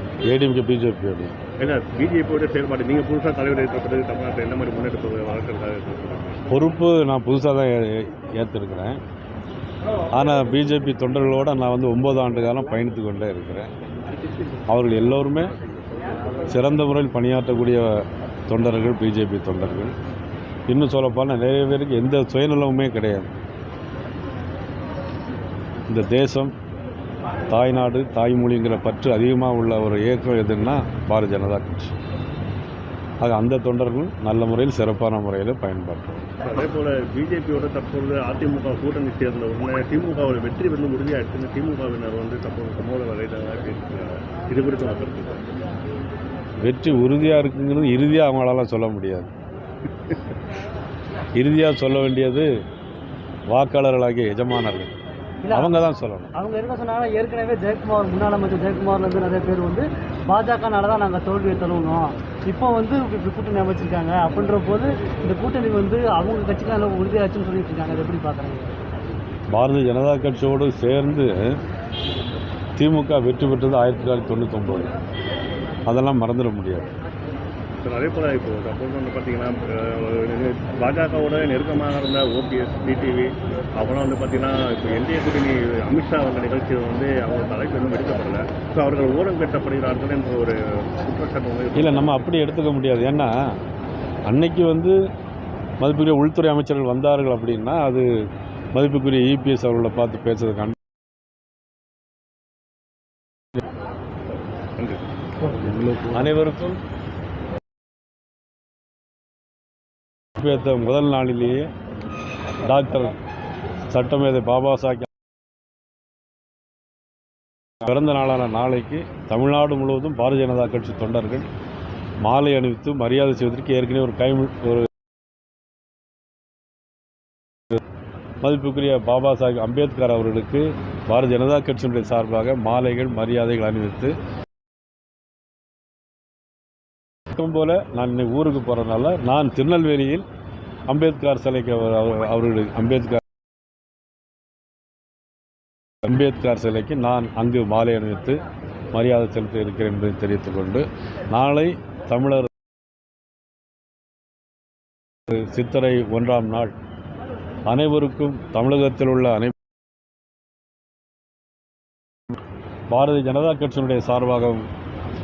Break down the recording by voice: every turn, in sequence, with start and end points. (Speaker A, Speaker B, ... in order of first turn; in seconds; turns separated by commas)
Speaker A: 0.2-1.3, Speaker B: 1.6-6.4, Speaker A: 6.5-9.0, Speaker A: 10.1-13.7, Speaker A: 14.7-15.5, Speaker A: 16.5-19.9, Speaker A: 20.7-23.3, Speaker A: 25.9-26.5, Speaker A: 27.5-31.9, Speaker A: 33.2-36.3, Speaker B: 36.4-45.4, Speaker A: 46.6-49.3, Speaker A: 51.3-52.5, Speaker A: 53.5-54.9, Speaker C: 55.4-68.7, Speaker A: 55.5-56.3, Speaker A: 69.5-71.5, Speaker A: 72.8-74.9, Speaker A: 75.9-76.9, Speaker B: 77.8-92.2, Speaker A: 91.7-93.3, Speaker A: 94.3-95.0, Speaker A: 95.8-98.1, Speaker A: 98.7-100.8, Speaker B: 104.8-105.0, Speaker A: 105.7-106.8, Speaker A: 110.4-111.7, Speaker A: 112.6-113.1, Speaker A: 113.9-115.1, Speaker A: 117.8-121.5, Speaker A: 122.2-124.9, Speaker A: 128.4-134.1, Speaker A: 137.3-140.2, Speaker A: 140.9-143.2, Speaker A: 146.0-148.4, Speaker A: 148.9-152.5, Speaker A: 155.3-156.7, Speaker A: 157.7-159.5, Speaker A: 162.9-164.6